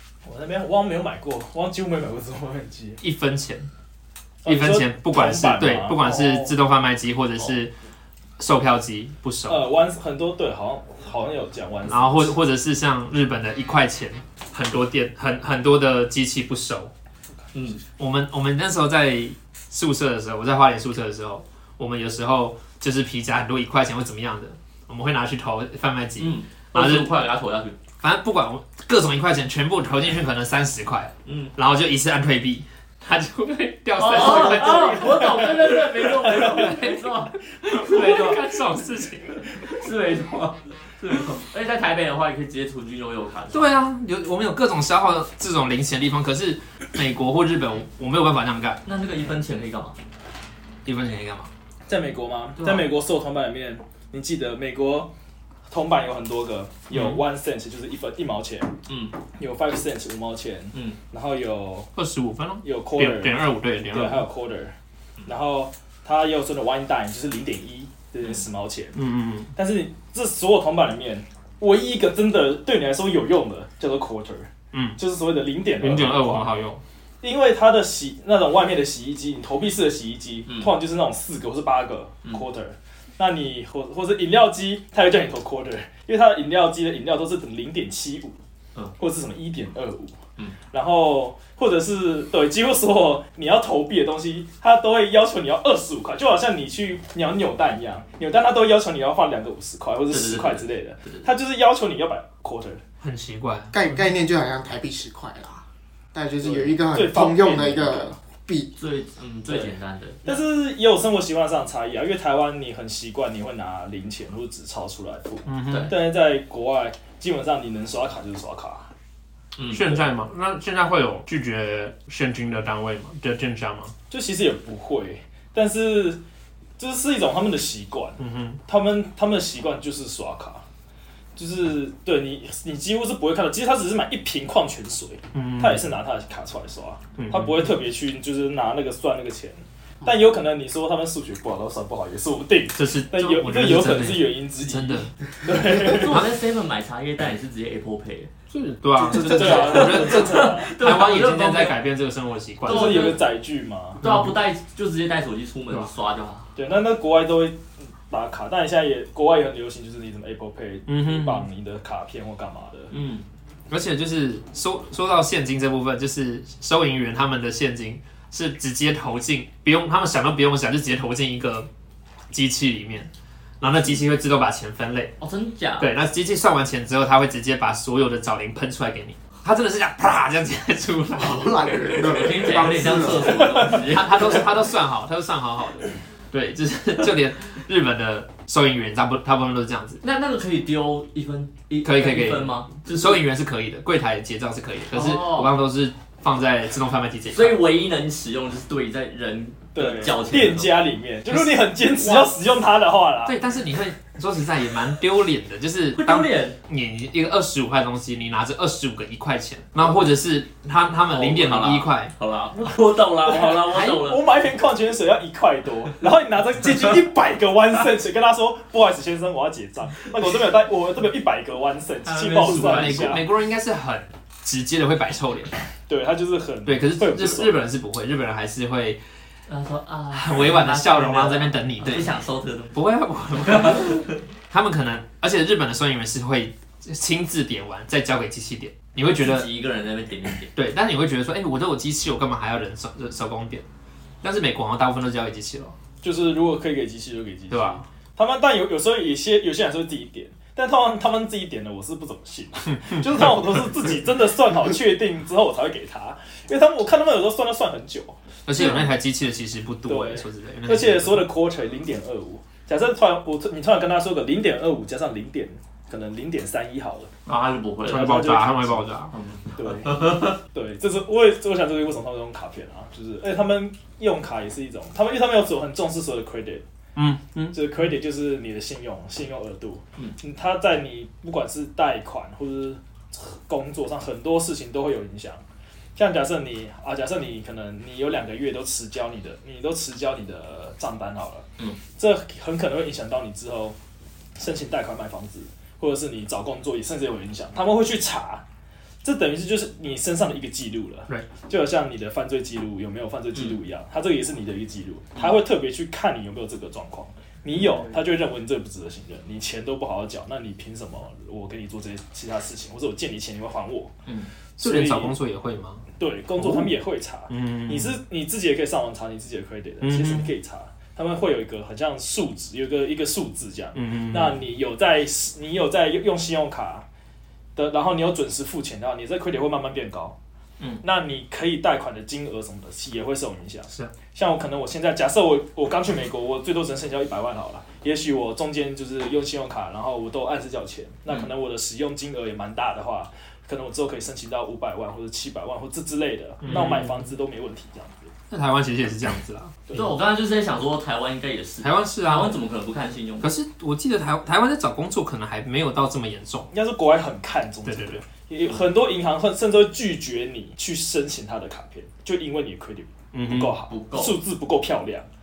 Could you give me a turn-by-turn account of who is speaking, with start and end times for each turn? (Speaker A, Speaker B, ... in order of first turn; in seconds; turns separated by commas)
Speaker A: 0.2-3.0, Speaker B: 3.0-3.7, Speaker A: 4.4-6.5, Speaker B: 4.4-7.7, Speaker B: 8.4-9.7, Speaker A: 9.5-12.3, Speaker B: 11.9-16.9, Speaker C: 17.5-17.8, Speaker B: 17.9-27.1, Speaker C: 26.2-27.8, Speaker B: 28.0-37.1, Speaker C: 31.2-31.5, Speaker C: 34.0-38.4, Speaker B: 37.6-39.4, Speaker C: 39.4-43.7, Speaker B: 43.5-48.8, Speaker C: 48.9-50.0, Speaker B: 50.8-51.5, Speaker A: 51.9-55.1, Speaker C: 52.6-52.9, Speaker A: 55.7-58.7, Speaker B: 56.9-57.2, Speaker C: 58.9-59.1, Speaker A: 59.3-61.9, Speaker B: 61.9-64.2, Speaker A: 62.6-64.7, Speaker A: 65.2-69.0, Speaker B: 68.9-69.5, Speaker A: 69.5-76.5, Speaker B: 74.7-75.0, Speaker B: 75.8-76.8, Speaker A: 77.2-88.4, Speaker A: 89.0-90.2, Speaker A: 90.7-102.8, Speaker C: 100.1-101.2, Speaker B: 103.0-103.8, Speaker D: 103.7-108.7, Speaker A: 106.4-108.1, Speaker C: 108.8-110.3, Speaker A: 109.5-109.7, Speaker A: 110.2-118.9, Speaker B: 115.5-115.9, Speaker C: 115.7-115.9, Speaker C: 119.6-119.9, Speaker B: 119.7-123.9, Speaker A: 124.1-126.2, Speaker A: 126.8-130.6, Speaker B: 128.2-128.6, Speaker A: 131.3-146.2, Speaker B: 135.3-135.9, Speaker B: 137.2-137.7, Speaker B: 142.7-145.1, Speaker C: 145.7-148.3, Speaker B: 148.5-153.2, Speaker A: 149.0-150.7, Speaker C: 149.1-151.8, Speaker A: 152.6-154.0, Speaker C: 152.7-153.2, Speaker C: 154.0-156.5, Speaker B: 154.0-154.3, Speaker A: 156.6-162.9, Speaker B: 160.9-161.4, Speaker C: 162.9-163.2, Speaker B: 163.7-171.7, Speaker B: 172.3-175.1, Speaker C: 175.2-175.9, Speaker B: 175.8-181.8, Speaker D: 181.1-183.7, Speaker C: 182.0-184.4, Speaker B: 183.7-190.0, Speaker C: 190.0-193.2, Speaker B: 191.8-197.6, Speaker C: 194.9-195.5, Speaker C: 197.3-200.8, Speaker A: 199.7-203.4, Speaker B: 203.2-212.1, Speaker C: 205.9-206.6, Speaker C: 211.1-214.2, Speaker A: 213.2-223.2, Speaker C: 222.0-223.2, Speaker B: 222.5-225.5, Speaker A: 225.9-227.6, Speaker B: 226.7-229.0, Speaker C: 229.5-232.8, Speaker B: 230.1-232.2, Speaker B: 232.7-239.5, Speaker C: 233.4-234.2, Speaker C: 239.0-240.5, Speaker B: 240.5-243.6, Speaker B: 244.2-245.8, Speaker A: 246.0-258.9, Speaker B: 247.5-247.8, Speaker B: 258.4-261.3, Speaker A: 259.9-267.1, Speaker C: 267.2-268.2, Speaker B: 267.9-269.1, Speaker A: 267.9-268.9, Speaker C: 269.1-270.4, Speaker A: 269.6-276.6, Speaker B: 276.9-277.6, Speaker A: 277.5-285.4, Speaker A: 285.9-293.8, Speaker A: 294.4-298.4, Speaker A: 299.0-313.9, Speaker A: 314.6-315.2, Speaker B: 314.6-315.8, Speaker A: 316.0-326.9, Speaker B: 316.4-316.7, Speaker B: 317.3-318.0, Speaker B: 319.8-320.3, Speaker B: 323.7-324.4, Speaker A: 327.6-330.1, Speaker A: 330.8-348.1, Speaker B: 346.4-346.9, Speaker C: 346.5-346.8, Speaker B: 348.3-349.6, Speaker C: 349.7-353.3, Speaker B: 351.6-352.4, Speaker B: 353.2-356.5, Speaker A: 356.5-365.1, Speaker B: 357.6-358.0, Speaker B: 363.1-363.6, Speaker C: 363.7-364.2